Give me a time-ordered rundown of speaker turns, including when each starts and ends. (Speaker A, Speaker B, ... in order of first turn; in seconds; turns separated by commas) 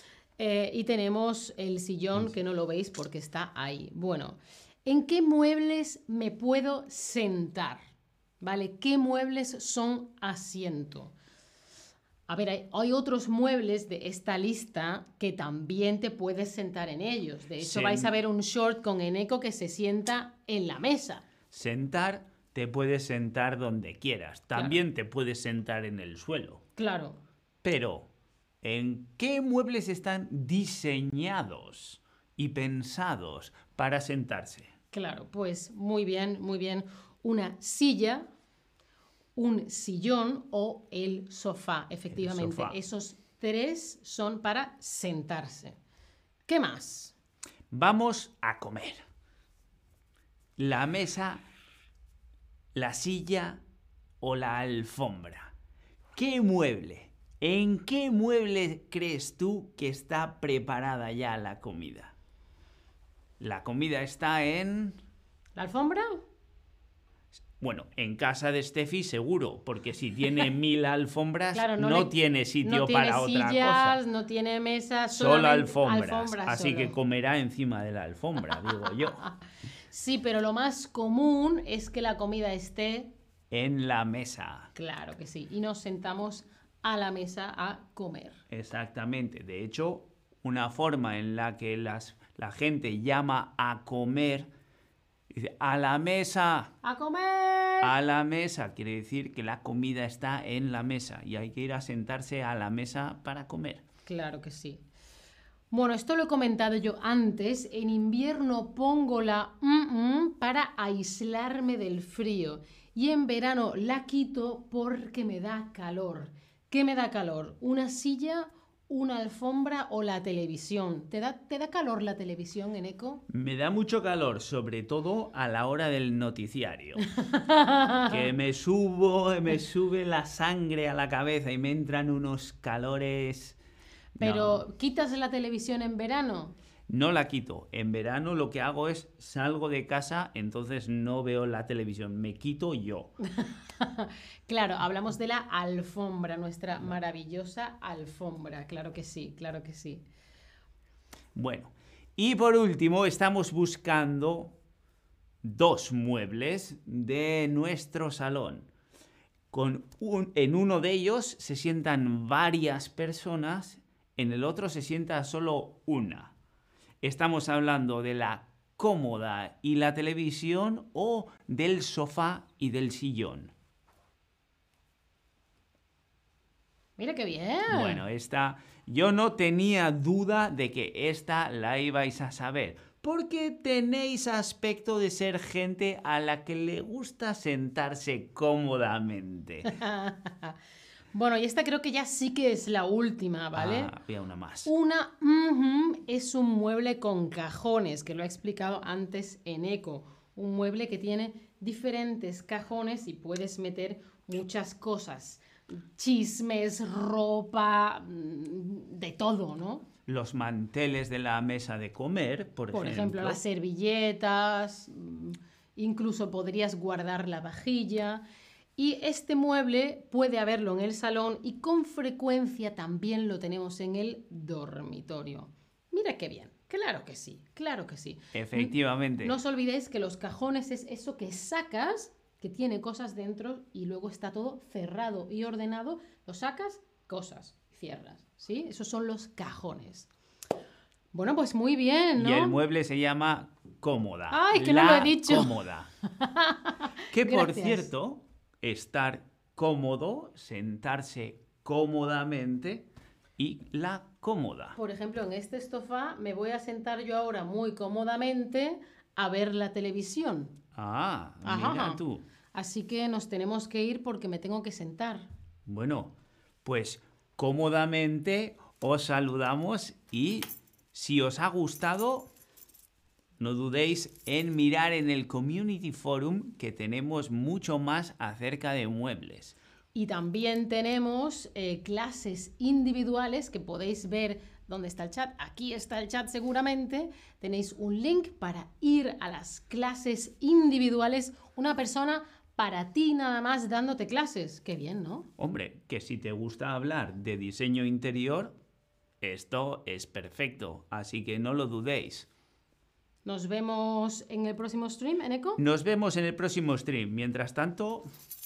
Speaker A: 0.4-7.8, Speaker A: 8.4-11.1, Speaker A: 12.3-21.2, Speaker B: 17.6-18.1, Speaker B: 21.5-26.6, Speaker A: 26.8-27.2, Speaker B: 27.6-28.1, Speaker B: 28.6-34.7, Speaker A: 34.9-38.3, Speaker A: 39.4-45.8, Speaker B: 42.1-42.8, Speaker A: 46.5-47.1, Speaker B: 47.7-49.0, Speaker B: 50.6-51.5, Speaker B: 52.8-53.6, Speaker B: 54.2-55.5, Speaker B: 56.2-62.1, Speaker B: 63.4-65.0, Speaker A: 65.6-66.2, Speaker B: 67.6-74.0, Speaker A: 71.5-77.0, Speaker B: 75.1-79.2, Speaker A: 79.9-83.1, Speaker B: 83.5-84.7, Speaker A: 84.8-88.4, Speaker B: 88.5-94.5, Speaker B: 95.3-96.7, Speaker A: 96.8-97.9, Speaker B: 97.8-103.8, Speaker A: 104.1-104.8, Speaker A: 105.7-123.2, Speaker B: 123.3-127.0, Speaker A: 127.2-128.2, Speaker B: 128.1-133.6, Speaker A: 134.2-136.6, Speaker B: 134.2-134.6, Speaker B: 136.9-143.1, Speaker A: 143.3-150.1, Speaker B: 151.3-154.6, Speaker B: 155.4-158.7, Speaker B: 159.5-166.3, Speaker B: 167.0-173.5, Speaker A: 177.0-178.0, Speaker B: 177.7-189.7, Speaker A: 189.7-190.6, Speaker A: 191.1-193.9, Speaker B: 193.6-194.7, Speaker A: 194.7-209.9, Speaker B: 210.1-213.4, Speaker A: 212.7-218.2, Speaker A: 218.8-240.1, Speaker B: 228.3-229.4, Speaker A: 241.1-242.6, Speaker B: 242.2-245.9, Speaker A: 244.3-245.6, Speaker A: 246.2-247.9, Speaker B: 247.1-254.8, Speaker A: 254.8-260.5, Speaker B: 260.8-262.2, Speaker A: 261.4-262.0, Speaker A: 262.5-265.3, Speaker B: 265.7-272.3, Speaker B: 273.4-279.6, Speaker A: 279.9-295.3, Speaker B: 295.4-298.6, Speaker B: 299.2-302.3, Speaker A: 303.2-305.6, Speaker B: 305.6-308.1